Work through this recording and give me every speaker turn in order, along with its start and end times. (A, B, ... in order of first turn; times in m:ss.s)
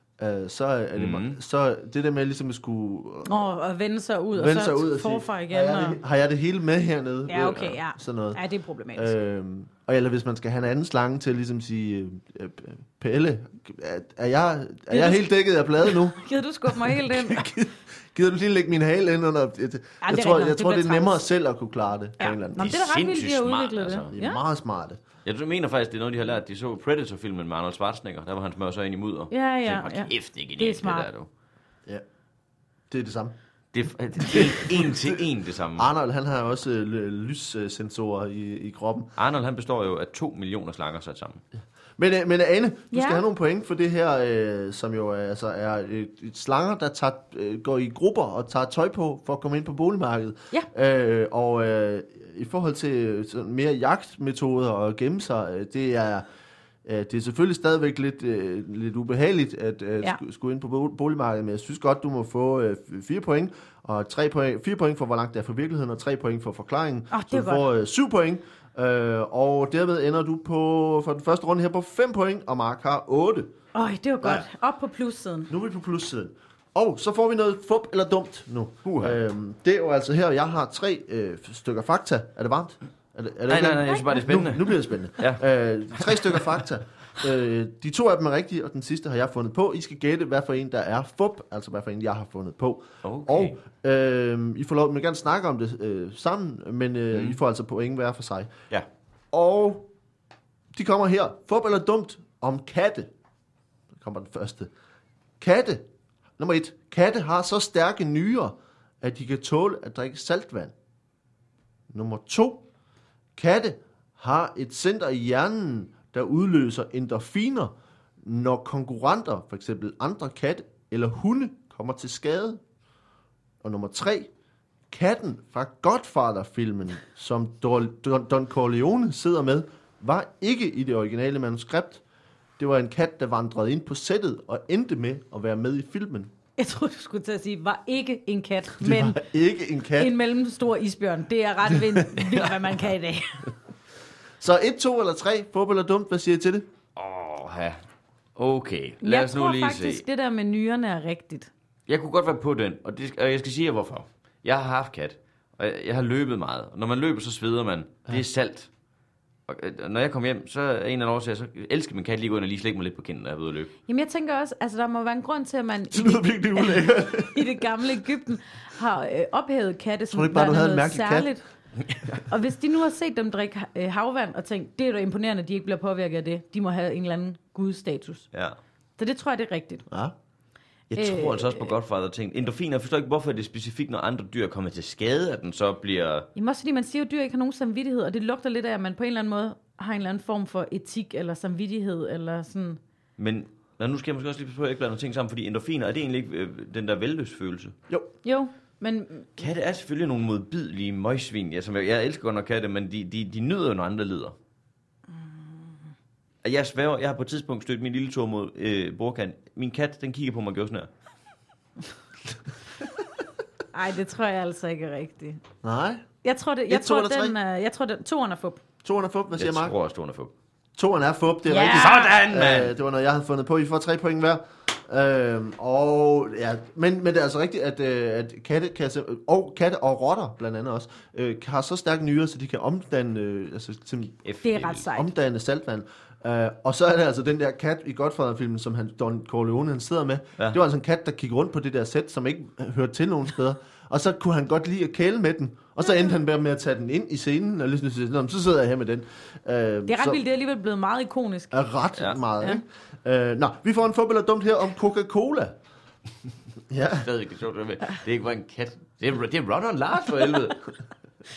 0:00.2-0:03.4 A
0:00.9-0:01.4 B
0:03.2-0:06.0 C
0:04.3-0:08.4 A
0:07.3-0:09.1 C
0:08.9-0:22.8 A
0:14.9-0:15.3 C
0:15.8-0:17.5 C
0:20.0-0:21.2 C
0:22.2-0:24.4 C
0:22.6-0:24.1 B
0:24.1-0:25.0 A
0:25.2-0:31.3 B
0:29.3-0:31.1 C
0:32.9-0:33.3 A
0:33.7-0:35.8 B
0:34.2-0:35.2 A
0:35.8-0:39.1 A
0:39.2-0:41.4 B
0:42.0-0:56.2 A
0:42.9-0:43.2 C
0:56.8-1:13.5 A
1:07.1-1:07.6 C
1:13.7-1:15.5 C
1:15.5-1:38.5 A
1:18.8-1:19.2 B
1:23.5-1:25.4 B
1:23.8-1:24.2 C
1:26.0-1:26.4 B
1:33.0-1:33.6 B
1:39.3-1:39.9 A
1:40.7-1:43.1 A
1:43.9-1:44.7 A
1:45.4-1:45.9 A
1:46.4-1:50.7 A
1:51.9-1:52.6 A
1:53.4-2:02.6 A
2:03.6-2:04.3 A
2:04.9-2:12.0 A
2:12.6-2:16.3 A
2:16.6-2:19.2 C
2:18.8-2:20.1 A
2:20.0-2:23.5 C
2:21.7-2:22.1 A
2:24.4-2:26.6 A
2:27.0-2:27.8 B
2:28.3-2:30.0 B
2:29.0-2:31.5 C
2:31.9-2:38.7 B
2:39.5-2:43.7 B
2:43.9-2:51.4 C
2:45.9-2:48.0 A
2:50.1-2:51.3 A
2:51.8-2:52.2 B
2:52.2-2:58.3 C
2:59.0-2:59.8 C
2:59.9-3:00.1 A
3:00.9-3:06.3 B
3:00.9-3:01.7 C
3:06.4-3:12.8 C
3:13.2-3:17.7 B
3:18.2-3:19.3 C
3:19.4-3:24.4 B
3:26.4-3:30.9 B
3:33.7-3:35.4 C
3:35.6-3:36.0 A
3:36.2-3:38.6 C
3:36.7-3:37.3 A
3:38.8-3:39.7 A
3:39.4-3:40.3 B
3:40.8-3:54.2 A
3:41.5-3:42.2 C
3:41.7-3:42.7 B
3:54.2-3:54.8 B
3:54.4-3:55.1 C
3:54.9-4:10.2 A
4:09.9-4:11.5 C
4:11.5-4:15.6 A
4:16.7-4:17.1 A
4:16.9-4:20.6 B